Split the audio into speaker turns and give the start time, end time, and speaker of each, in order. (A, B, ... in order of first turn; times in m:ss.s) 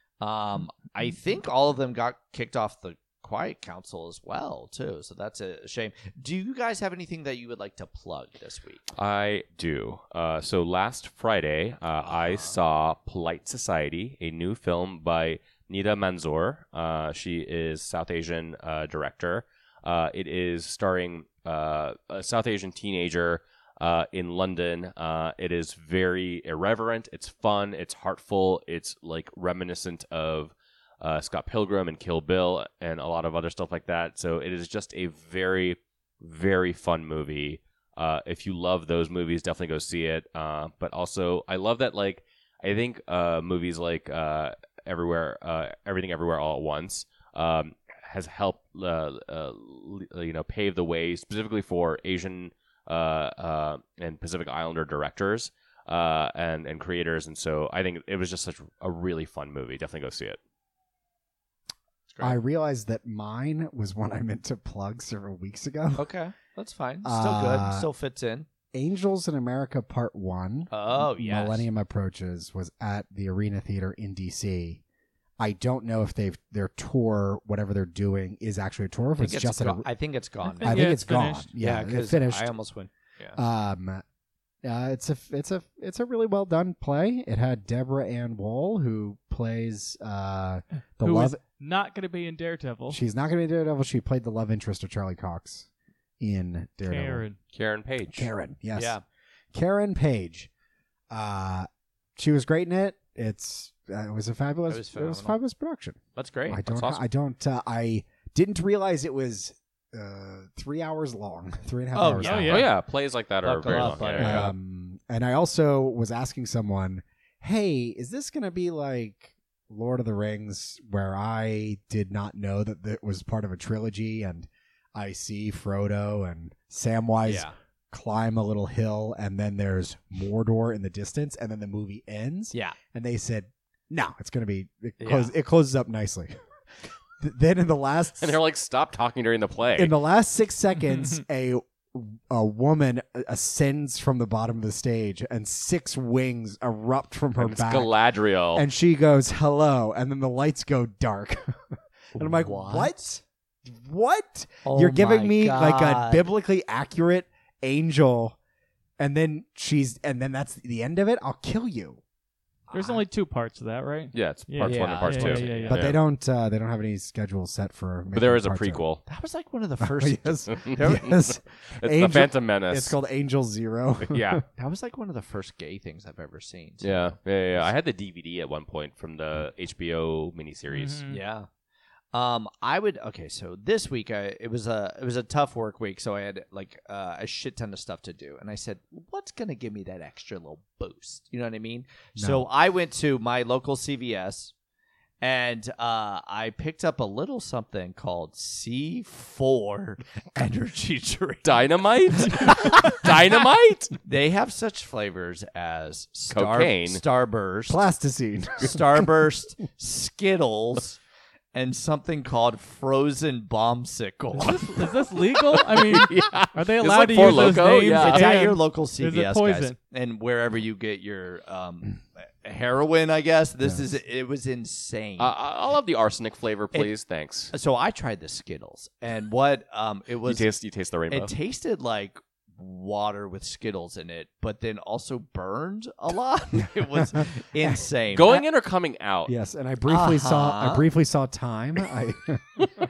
0:00.2-0:08.8 A
0:08.9-1:00.4 B
0:12.1-0:12.6 A
1:02.1-1:02.4 A
1:02.2-1:06.0 C
1:05.9-1:08.5 A
1:07.0-1:07.9 C
1:08.7-1:14.8 C
1:10.7-1:11.7 A
1:15.4-1:19.9 C
1:19.2-1:21.0 A
1:20.6-1:21.4 D
1:20.6-1:22.5 C
1:21.6-1:23.4 A
1:23.4-1:24.0 C
1:24.6-1:31.4 C
1:31.0-1:33.0 D
1:32.9-1:35.7 C
1:36.2-1:37.2 C
1:36.9-1:37.4 D
1:37.5-1:38.3 B
1:38.1-1:39.0 C
1:38.7-1:39.0 A
1:39.5-1:40.5 C
1:41.1-1:52.7 C
1:44.7-1:45.4 A
1:46.2-1:46.6 A
1:46.6-1:47.0 B
1:51.9-1:52.8 A
1:52.2-1:52.7 D
1:52.4-1:54.5 B
1:53.4-1:54.5 A
1:53.7-2:16.4 C
2:07.2-2:07.5 A
2:15.0-2:15.3 A
2:17.2-2:18.4 C
2:18.2-2:19.9 B
2:19.8-2:27.9 C
2:27.4-2:28.6 B
2:28.5-2:38.4 C
2:32.2-2:32.9 A
2:34.6-2:36.2 A
2:39.0-2:42.0 C
2:42.7-2:43.0 A
2:42.7-2:45.8 D
2:44.1-2:46.0 B
2:44.6-2:45.8 A
2:45.7-2:48.8 C
2:48.1-2:49.0 B
2:49.0-2:51.1 A
2:49.8-2:54.4 C
2:50.5-2:52.9 B
2:54.1-2:54.4 B
2:54.6-2:57.1 A
2:56.8-3:01.0 B
3:00.7-3:01.2 D
3:01.1-3:01.5 A
3:02.1-3:14.5 A
3:12.2-3:12.4 C
3:15.2-3:23.1 A
3:21.4-3:23.9 B
3:24.0-3:27.8 A
3:26.3-3:27.0 B
3:27.7-3:29.0 C
3:28.6-3:31.0 A
3:31.5-3:35.0 A
3:34.4-3:39.8 D
3:35.5-3:38.3 B
3:37.2-3:45.3 A
3:45.2-3:47.5 B
3:47.5-3:50.5 A
3:50.2-3:51.3 B
3:51.1-3:58.4 A
3:58.1-3:59.3 B
3:59.2-4:02.6 C
3:59.9-4:00.9 A